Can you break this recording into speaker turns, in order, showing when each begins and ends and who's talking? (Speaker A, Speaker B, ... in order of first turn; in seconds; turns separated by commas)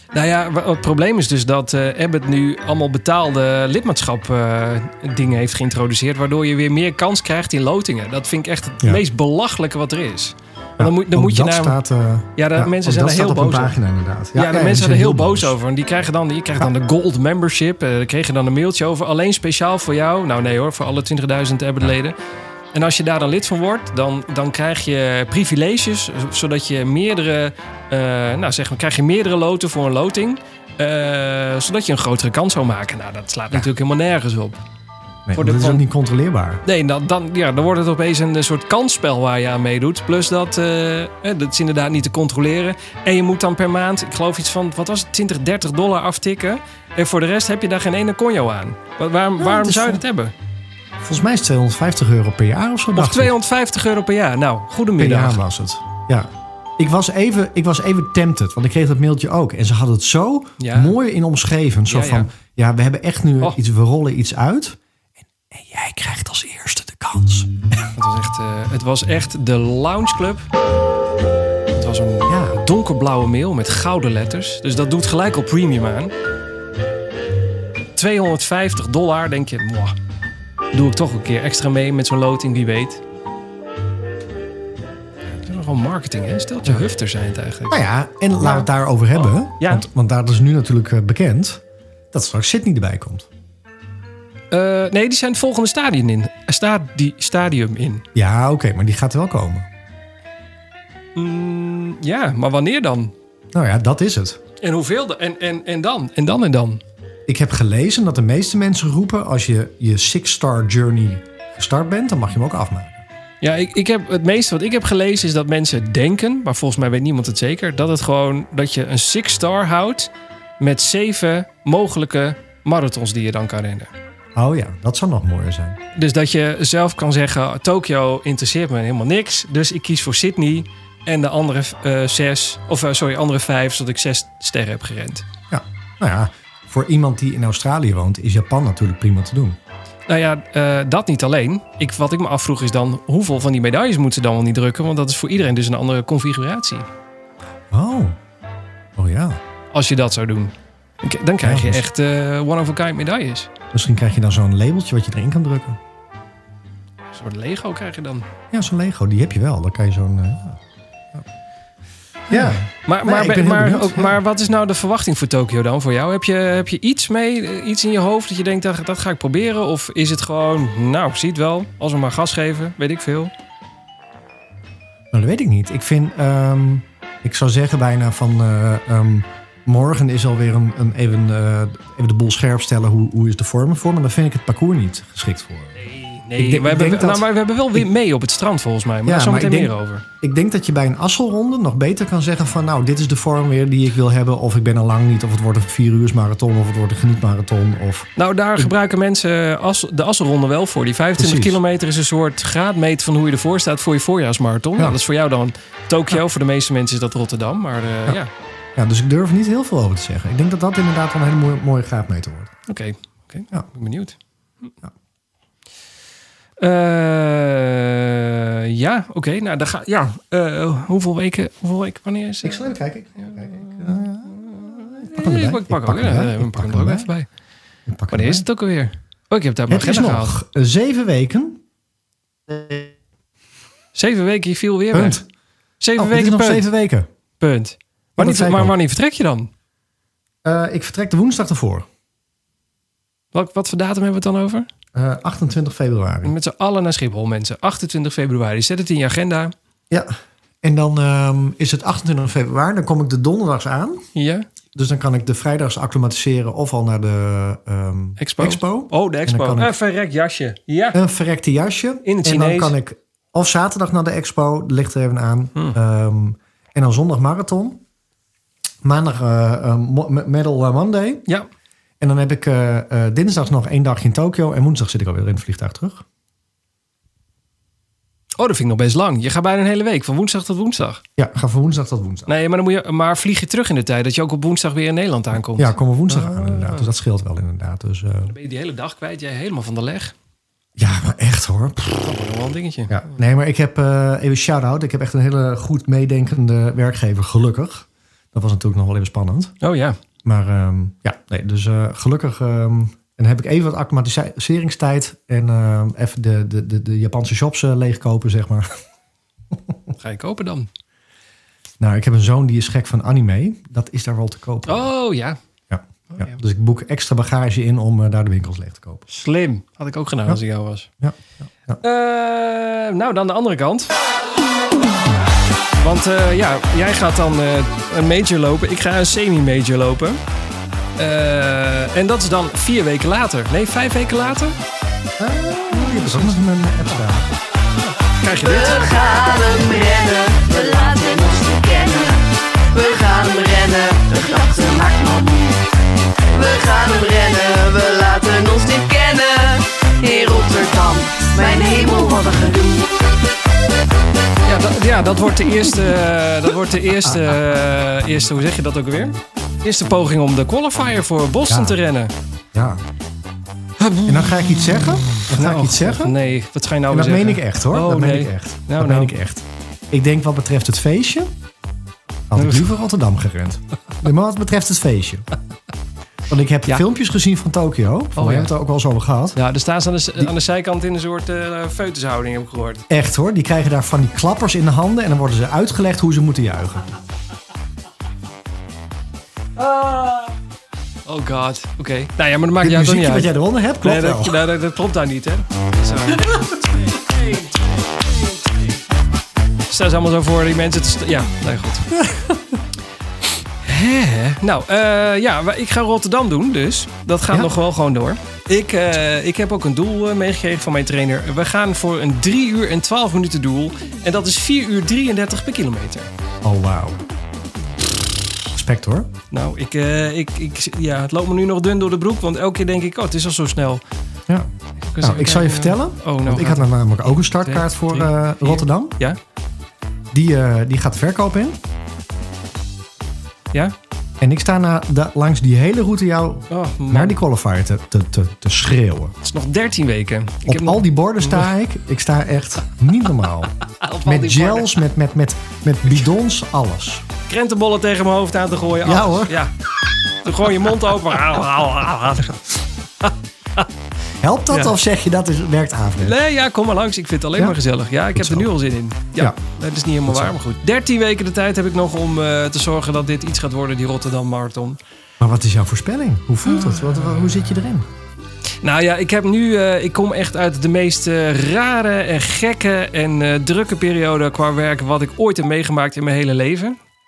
Speaker A: 0.1-11.8, Speaker B: 10.8-15.6, Speaker A: 12.3-13.7, Speaker A: 14.3-22.1, Speaker A: 22.7-34.6, Speaker B: 35.2-36.6, Speaker A: 35.4-35.8, Speaker A: 36.6-50.3, Speaker B: 49.4-50.0, Speaker B: 51.0-53.3, Speaker A: 52.9-55.4, Speaker B: 55.0-64.8, Speaker A: 60.6-60.9, Speaker A: 61.9-62.3, Speaker B: 65.5-67.5, Speaker A: 67.9-70.5, Speaker A: 71.7-76.1, Speaker B: 72.3-72.6, Speaker A: 78.0-79.9, Speaker A: 80.7-83.0, Speaker A: 85.4-87.8, Speaker B: 87.7-91.6, Speaker A: 88.4-89.8, Speaker B: 92.1-93.3, Speaker A: 94.5-98.0, Speaker B: 98.1-99.7, Speaker A: 101.1-103.1, Speaker B: 103.5-104.4, Speaker A: 104.6-106.8, Speaker B: 107.3-113.0, Speaker A: 113.4-123.9, Speaker B: 124.3-125.8, Speaker A: 125.9-135.2, Speaker B: 135.5-139.6, Speaker A: 140.1-146.9, Speaker B: 147.7-148.2, Speaker B: 148.9-149.4, Speaker A: 149.7-153.5, Speaker B: 151.4-151.8, Speaker B: 153.7-155.8, Speaker A: 157.1-158.3, Speaker B: 158.5-160.6, Speaker B: 162.3-164.2, Speaker A: 162.3-173.3, Speaker B: 175.1-185.8, Speaker A: 185.8-190.0, Speaker B: 186.4-187.8, Speaker B: 189.0-198.7, Speaker A: 198.2-208.3, Speaker B: 201.2-201.6, Speaker B: 208.8-212.5, Speaker A: 212.7-214.7, Speaker A: 216.6-227.3, Speaker B: 222.4-227.1, Speaker B: 227.9-228.4, Speaker A: 228.1-230.3, Speaker B: 229.7-231.6, Speaker B: 232.5-232.9, Speaker A: 233.9-235.2, Speaker B: 234.9-235.2, Speaker A: 235.8-236.7, Speaker B: 235.9-237.1, Speaker A: 237.4-239.5, Speaker B: 238.2-238.8, Speaker B: 240.4-241.9, Speaker A: 243.3-244.7, Speaker B: 244.9-246.3, Speaker A: 246.2-249.5, Speaker B: 249.9-254.1, Speaker A: 254.1-254.4, Speaker B: 254.7-259.7, Speaker A: 258.2-261.0, Speaker B: 260.9-267.8, Speaker A: 262.0-262.7, Speaker B: 268.8-271.2, Speaker B: 272.0-276.0, Speaker A: 278.4-281.0, Speaker B: 281.2-282.3, Speaker A: 282.3-286.9, Speaker B: 285.6-288.3, Speaker A: 288.2-290.1, Speaker B: 290.8-292.1, Speaker A: 292.0-293.0, Speaker B: 292.9-299.5, Speaker A: 299.6-300.0, Speaker B: 300.2-308.8, Speaker A: 309.9-310.7, Speaker B: 311.8-314.9, Speaker A: 314.7-315.4, Speaker B: 315.7-319.1, Speaker A: 319.1-320.9, Speaker B: 321.0-321.8, Speaker A: 321.8-323.9, Speaker A: 325.8-330.2, Speaker A: 331.0-334.6, Speaker B: 335.2-337.3, Speaker A: 335.8-336.2, Speaker A: 338.1-338.9, Speaker C: 338.4-345.6, Speaker C: 346.3-352.9, Speaker A: 354.4-362.1, Speaker B: 361.5-361.8, Speaker B: 362.5-362.8, Speaker A: 363.8-369.1, Speaker B: 364.0-366.1, Speaker B: 366.9-371.3, Speaker B: 372.3-375.3, Speaker A: 372.4-372.7, Speaker B: 376.3-379.4, Speaker A: 378.2-378.5, Speaker A: 379.3-382.8, Speaker B: 382.9-386.9, Speaker A: 389.6-390.3, Speaker A: 391.1-398.8, Speaker B: 392.6-394.4, Speaker A: 399.7-401.9, Speaker B: 401.9-402.4, Speaker A: 403.6-416.1, Speaker B: 416.4-417.0, Speaker B: 418.5-419.1, Speaker A: 419.3-423.8, Speaker A: 424.9-429.2, Speaker B: 425.0-428.9, Speaker B: 430.1-431.6, Speaker B: 434.2-439.1, Speaker A: 436.5-437.2, Speaker A: 439.2-441.5, Speaker B: 440.4-443.5, Speaker A: 443.6-444.8, Speaker B: 444.0-447.0, Speaker A: 447.3-449.5, Speaker B: 448.8-449.4, Speaker A: 450.2-453.7, Speaker B: 454.2-456.2, Speaker A: 456.0-464.8, Speaker B: 458.1-458.5, Speaker B: 460.1-460.3, Speaker B: 465.2-467.9, Speaker A: 468.6-476.8